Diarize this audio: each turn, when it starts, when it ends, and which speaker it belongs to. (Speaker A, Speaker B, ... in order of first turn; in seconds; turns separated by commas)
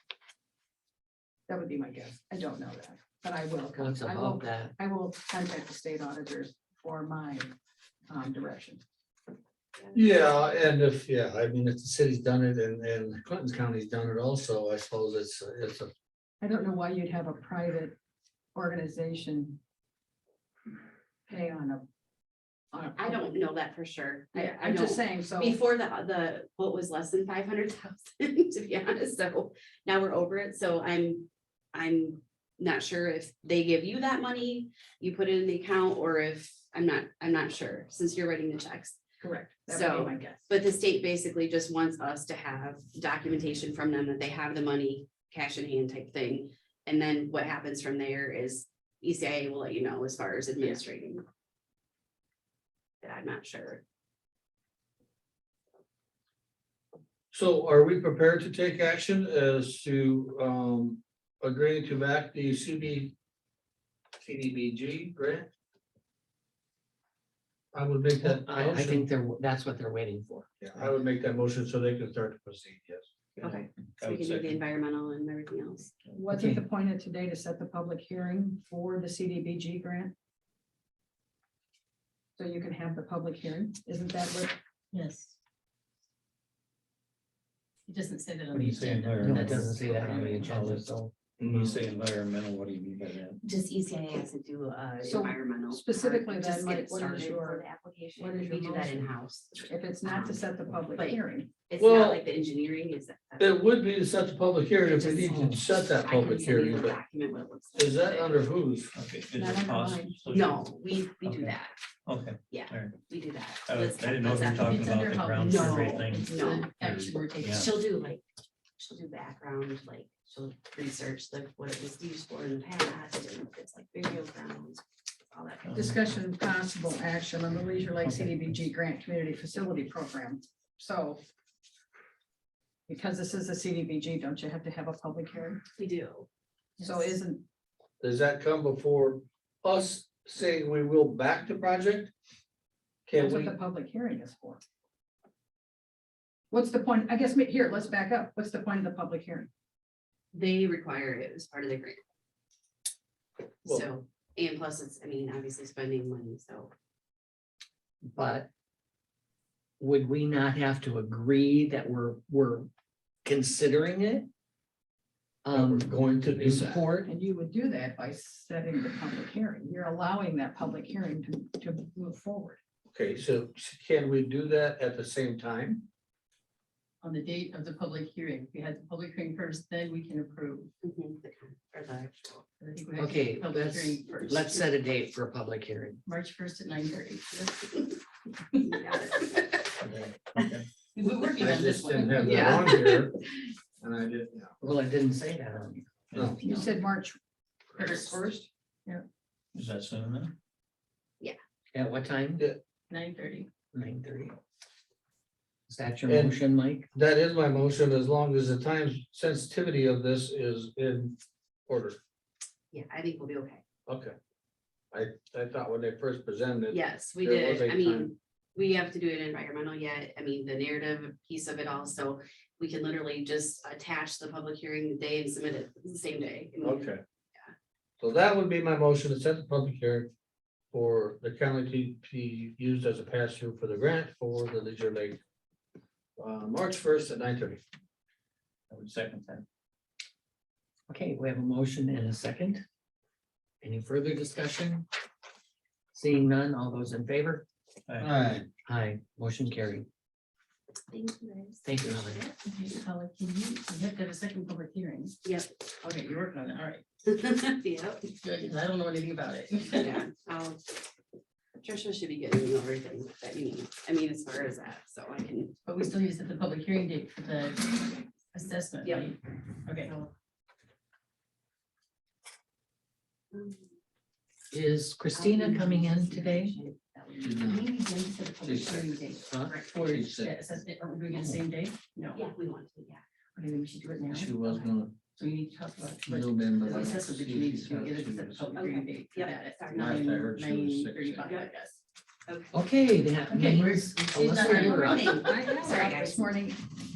Speaker A: 1.5-7.5, Speaker B: 3.8-4.7, Speaker A: 8.1-8.8, Speaker C: 9.9-15.9, Speaker A: 16.4-18.0, Speaker A: 18.5-19.6, Speaker A: 21.3-21.9, Speaker A: 22.7-23.3, Speaker D: 23.0-39.0, Speaker A: 24.3-25.6, Speaker A: 39.2-40.5, Speaker D: 39.7-51.2, Speaker D: 53.0-53.8, Speaker C: 57.3-63.1, Speaker C: 64.2-65.5, Speaker C: 67.7-69.0, Speaker B: 68.2-70.9, Speaker C: 70.6-73.1, Speaker E: 73.4-74.6, Speaker D: 73.4-75.9, Speaker A: 76.1-80.1, Speaker B: 76.3-76.6, Speaker A: 82.4-84.6, Speaker F: 84.9-85.4, Speaker F: 87.9-90.7, Speaker E: 88.5-90.9, Speaker B: 89.2-91.1, Speaker C: 91.4-91.8, Speaker E: 91.4-93.4, Speaker D: 93.4-103.7, Speaker A: 95.0-97.7, Speaker A: 98.2-101.5, Speaker C: 101.8-102.2, Speaker C: 103.4-107.0, Speaker D: 104.9-105.4, Speaker D: 106.0-108.5, Speaker C: 107.8-109.0, Speaker E: 108.9-113.0, Speaker A: 109.3-110.2, Speaker D: 110.3-111.8, Speaker D: 112.5-116.8, Speaker E: 113.7-117.7, Speaker F: 114.7-117.7, Speaker D: 117.4-118.2, Speaker D: 118.8-125.7, Speaker E: 125.7-126.0, Speaker A: 125.7-131.2, Speaker E: 128.0-128.6, Speaker A: 132.9-135.6, Speaker D: 135.8-136.3, Speaker F: 136.8-137.2, Speaker A: 136.8-137.4, Speaker C: 138.0-142.1, Speaker C: 143.1-143.6, Speaker A: 143.1-144.6, Speaker A: 146.5-149.5, Speaker D: 150.3-152.0, Speaker D: 153.6-156.7, Speaker B: 158.0-158.5, Speaker B: 159.8-162.7, Speaker B: 163.2-164.3, Speaker B: 165.4-167.1, Speaker C: 165.5-166.9, Speaker A: 167.1-172.6, Speaker C: 172.9-175.9, Speaker F: 177.0-180.7, Speaker D: 180.8-182.5, Speaker F: 182.6-184.7, Speaker B: 183.0-186.0, Speaker F: 186.1-188.0, Speaker F: 188.5-189.2, Speaker D: 188.7-189.7, Speaker B: 189.8-190.1, Speaker F: 190.9-192.9, Speaker C: 191.4-193.2, Speaker D: 192.2-193.1, Speaker C: 193.8-194.6, Speaker B: 194.6-196.2, Speaker E: 196.1-196.4, Speaker F: 196.4-196.7, Speaker A: 196.4-197.2, Speaker A: 197.7-198.5, Speaker F: 197.8-198.2, Speaker E: 199.6-200.3, Speaker B: 201.7-202.4, Speaker F: 202.9-203.5, Speaker B: 203.7-204.4, Speaker B: 205.7-206.9, Speaker C: 206.1-206.4, Speaker C: 206.9-211.2, Speaker C: 211.7-212.0, Speaker D: 212.7-213.6, Speaker C: 213.9-214.2, Speaker C: 214.9-218.1, Speaker D: 216.7-227.5, Speaker C: 226.6-227.0, Speaker C: 228.0-230.1, Speaker C: 230.7-235.2, Speaker C: 236.2-237.6, Speaker E: 238.7-239.4, Speaker B: 240.9-242.6, Speaker B: 243.6-244.8, Speaker B: 245.9-247.4, Speaker E: 247.9-248.1, Speaker C: 248.0-248.5, Speaker B: 248.7-249.9, Speaker D: 250.9-252.3, Speaker B: 251.6-252.2, Speaker F: 252.3-255.2, Speaker D: 255.2-255.5, Speaker F: 255.8-256.8, Speaker D: 257.1-258.1, Speaker F: 258.1-260.0, Speaker D: 259.7-260.6, Speaker D: 261.6-265.6, Speaker F: 265.6-269.9, Speaker D: 268.8-269.1, Speaker D: 269.7-270.1, Speaker D: 273.3-273.8, Speaker B: 274.5-276.6, Speaker D: 275.1-279.6, Speaker F: 277.1-282.3, Speaker C: 277.2-277.7, Speaker C: 278.4-279.0, Speaker B: 279.3-279.6, Speaker C: 279.8-280.5, Speaker D: 282.1-283.0, Speaker F: 283.4-284.5, Speaker C: 284.1-285.0, Speaker D: 284.4-284.7, Speaker F: 285.1-291.8, Speaker C: 286.0-288.6, Speaker D: 288.5-290.1, Speaker C: 289.7-291.4, Speaker D: 291.2-291.5, Speaker D: 292.3-292.5, Speaker B: 292.5-295.1, Speaker F: 293.3-295.2, Speaker D: 294.1-296.4, Speaker A: 295.0-296.7